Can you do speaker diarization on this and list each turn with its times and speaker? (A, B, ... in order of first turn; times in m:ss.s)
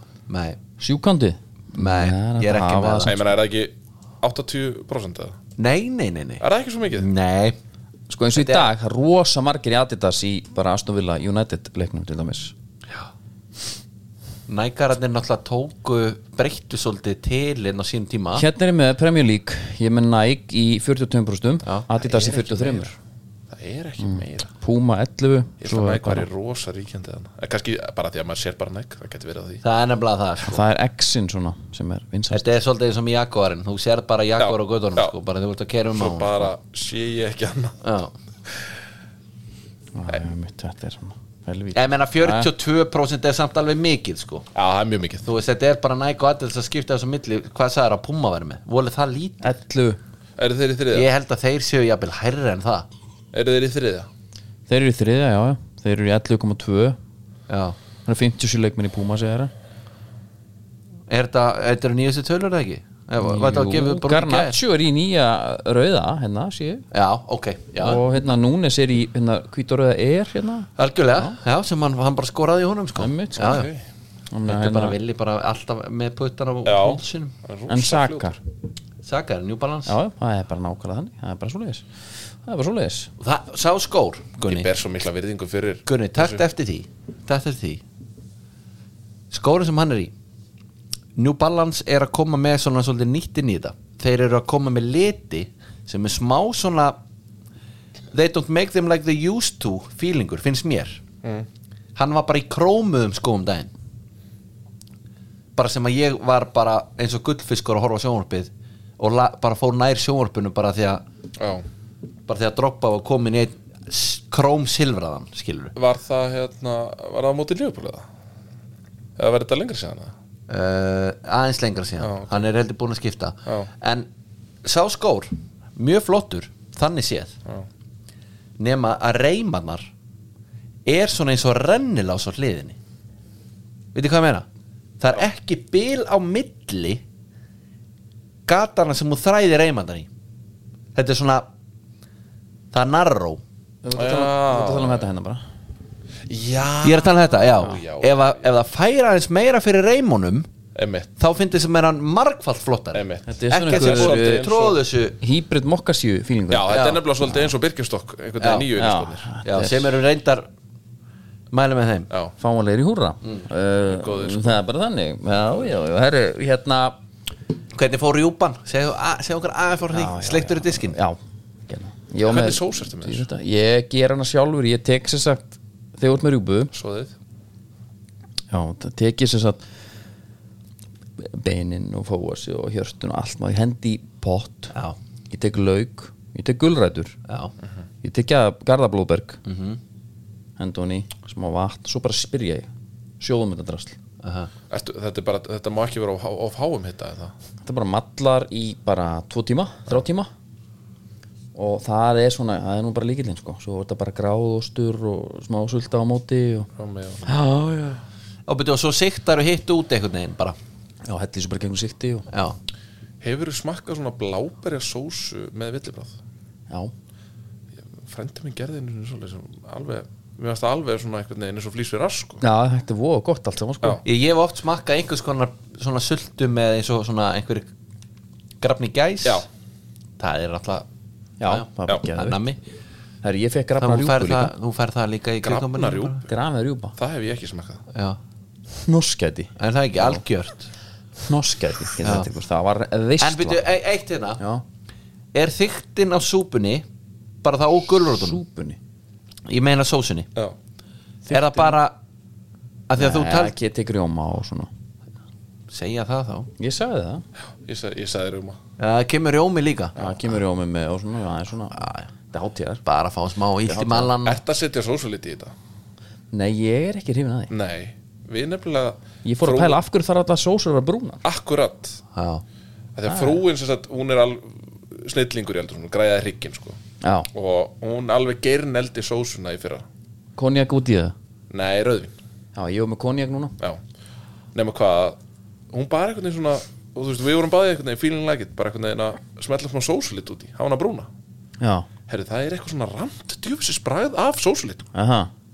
0:00.3-0:00.6 A
0:00.8-0:03.3 B
0:01.7-0:03.1 A
0:03.1-0:05.4 C
0:05.6-0:06.4 A
0:06.4-0:07.1 C
0:07.0-0:07.6 A
0:08.1-0:12.5 B
0:08.4-0:08.7 A
0:14.5-0:18.5 A
0:18.4-0:22.9 B
0:22.0-0:22.8 C
0:23.5-0:24.5 C
0:24.0-0:26.3 B
0:25.6-0:29.6 C
0:29.6-0:30.6 A
0:30.4-0:32.5 B
0:32.3-0:36.5 A
0:34.4-0:35.1 C
0:36.0-0:37.8 C
0:37.8-0:38.1 A
0:40.0-0:42.5 B
0:41.7-0:44.5 A
0:44.6-0:45.3 C
0:45.2-0:49.4 A
0:49.4-0:50.0 B
0:50.4-0:51.1 C
0:50.9-0:52.9 A
0:53.3-0:54.1 C
0:54.7-0:57.0 B
0:57.5-0:57.8 A
0:58.1-0:59.5 B
1:01.1-1:04.6 A
1:03.2-1:06.9 B
1:06.9-1:08.0 A
1:07.8-1:11.4 B
1:10.8-1:13.7 A
1:13.0-1:13.6 B
1:13.4-1:13.8 C
1:14.3-1:15.0 B
1:14.5-1:17.3 A
1:16.6-1:18.4 C
1:17.7-1:18.4 B
1:19.0-1:20.0 A
1:19.9-1:21.8 B
1:22.4-1:23.1 B
1:23.2-1:24.7 A
1:24.4-1:26.4 C
1:25.9-1:27.8 A
1:29.3-1:30.1 A
1:31.2-1:37.0 A
1:38.1-1:41.0 A
1:42.0-1:43.7 A
1:45.6-1:51.0 A
1:51.4-1:51.6 C
1:52.3-1:55.8 A
1:55.8-1:58.0 C
1:59.2-2:00.1 C
2:00.5-2:04.1 A
2:02.0-2:02.3 C
2:04.6-2:07.3 A
2:08.6-2:09.9 A
2:10.9-2:12.8 A
2:13.9-2:14.5 A
2:15.0-2:17.0 A
2:18.5-2:20.1 A
2:21.0-2:21.5 A
2:22.7-2:23.4 A
2:23.8-2:25.4 B
2:24.0-2:25.1 C
2:26.3-2:28.4 C
2:26.8-2:30.5 A
2:30.8-2:31.1 C
2:31.2-2:35.2 A
2:32.9-2:34.9 C
2:33.3-2:34.5 B
2:35.2-2:37.5 B
2:36.5-2:39.3 C
2:36.7-2:37.0 A
2:38.4-2:38.7 A
2:38.8-2:39.9 B
2:39.4-2:40.5 A
2:41.5-2:42.1 A
2:42.4-2:47.0 B
2:43.8-2:44.6 C
2:47.7-2:51.0 A
2:49.9-2:51.2 B
2:51.7-2:56.7 B
2:52.2-2:53.3 C
2:56.7-2:57.1 C
2:58.5-2:59.6 B
3:01.2-3:04.7 B
3:05.3-3:07.2 B
3:07.3-3:07.5 A
3:08.0-3:09.4 B
3:09.4-3:09.8 A
3:10.6-3:12.7 B
3:13.2-3:14.0 B
3:14.2-3:14.5 A
3:14.7-3:17.3 C
3:17.6-3:20.3 B
3:21.6-3:26.7 B
3:26.8-3:27.3 C
3:27.2-3:28.0 B
3:28.5-3:30.6 A
3:31.0-3:32.3 B
3:32.3-3:32.6 A
3:33.2-3:36.1 C
3:38.0-3:42.4 C
3:42.4-3:44.0 B
3:44.0-3:47.7 A
3:48.6-3:49.4 A
3:50.2-3:50.9 A
3:51.4-3:52.4 B
3:51.4-3:52.6 A
3:53.2-3:54.5 B
3:53.8-3:56.2 A
3:55.4-3:56.2 C
3:56.3-3:57.0 B
3:57.0-3:57.8 C
3:57.9-3:58.2 A
3:58.7-4:00.2 B
3:59.6-4:00.7 A
4:01.2-4:03.6 B
4:02.0-4:02.3 A
4:03.2-4:04.4 A
4:05.3-4:06.8 A
4:07.4-4:08.4 A
4:08.2-4:08.8 B
4:09.5-4:10.3 A
4:11.3-4:11.8 B
4:11.3-4:12.0 A
4:12.9-4:13.5 A
4:13.0-4:14.7 B
4:15.7-4:16.5 A
4:16.6-4:17.2 B
4:17.6-4:18.6 C
4:18.8-4:19.9 A
4:20.0-4:21.8 B
4:21.7-4:22.1 A
4:22.3-4:22.8 B
4:22.8-4:24.4 A
4:23.7-4:24.1 B
4:24.2-4:25.5 C
4:26.3-4:27.5 B
4:27.5-4:29.8 C
4:29.2-4:31.2 B
4:31.2-4:32.0 C
4:32.1-4:32.4 A
4:33.0-4:36.8 C
4:33.1-4:33.4 B
4:37.0-4:37.3 B
4:37.3-4:39.8 C
4:40.4-4:41.2 B
4:41.5-4:42.1 C
4:42.6-4:43.5 B
4:44.6-4:45.2 C
4:45.7-4:51.1 C
4:51.6-4:51.9 B
4:52.1-4:54.8 C
4:55.0-4:55.3 B